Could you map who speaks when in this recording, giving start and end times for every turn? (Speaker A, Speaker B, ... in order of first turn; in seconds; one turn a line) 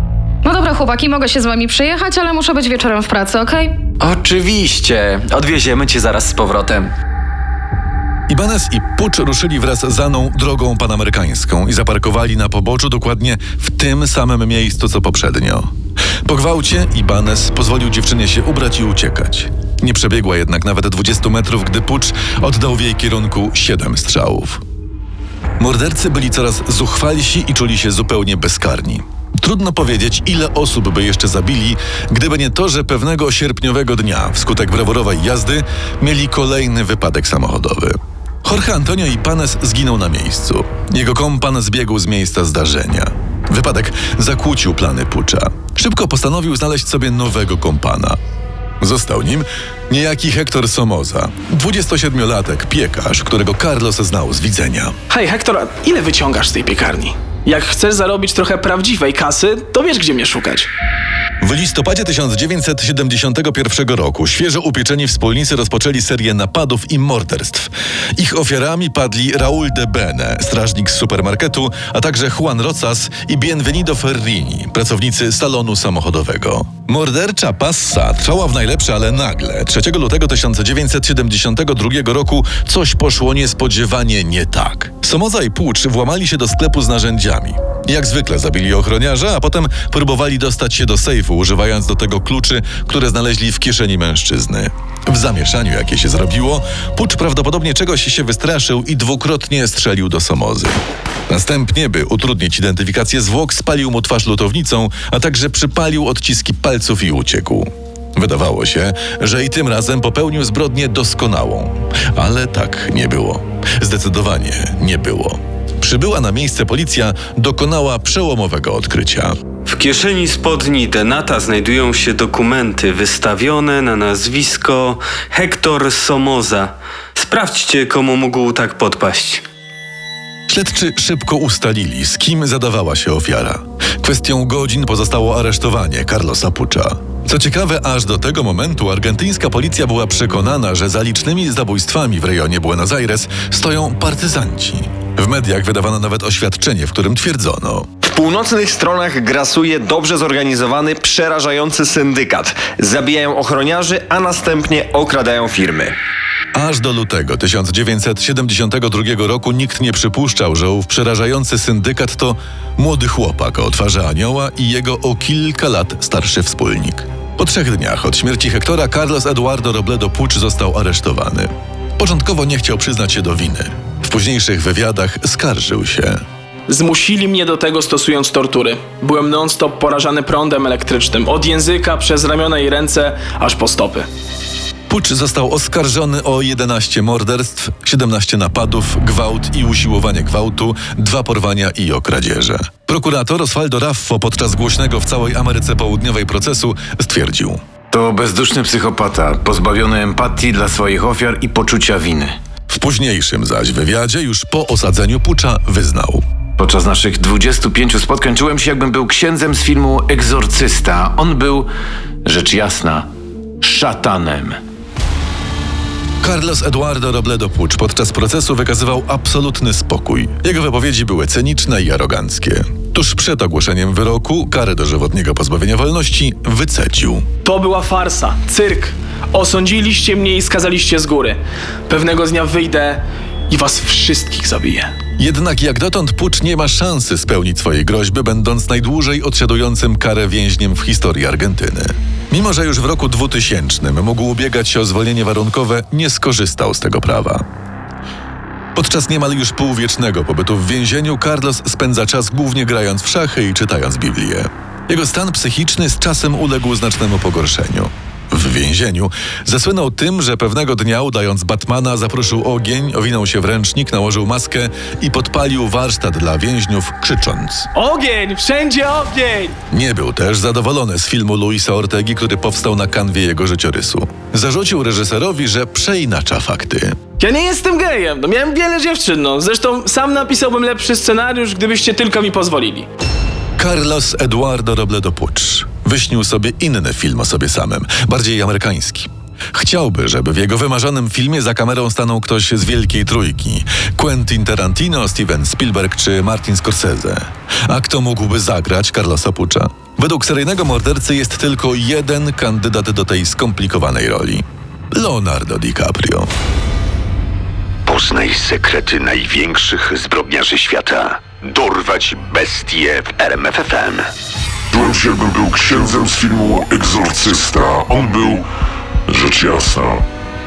Speaker A: 0.4-3.7
Speaker B: 4.0-6.9
Speaker C: 8.3-15.7
Speaker C: 16.2-24.6
Speaker C: 25.6-48.2
Speaker C: 48.8-55.0
Speaker D: 55.1-60.7
Speaker C: 61.4-119.3
Speaker E: 119.7-129.4
Speaker C: 130.5-147.9
Speaker F: 148.0-155.9
Speaker C: 156.5-176.2
Speaker D: 176.7-184.1
Speaker C: 184.9-197.6
Speaker G: 197.9-202.4
Speaker C: 202.7-206.2
Speaker G: 206.6-211.7
Speaker G: 212.2-213.1
Speaker G: 213.6-214.6
Speaker C: 216.2-227.2
Speaker D: 227.4-234.9
Speaker C: 235.2-247.4
Speaker C: 248.7-267.7
Speaker D: 267.8-269.5
Speaker C: 269.7-277.0
Speaker D: 277.2-282.9
Speaker C: 283.6-306.3
Speaker H: 307.9-314.1
Speaker I: 314.7-318.4
Speaker I: 319.1-320.0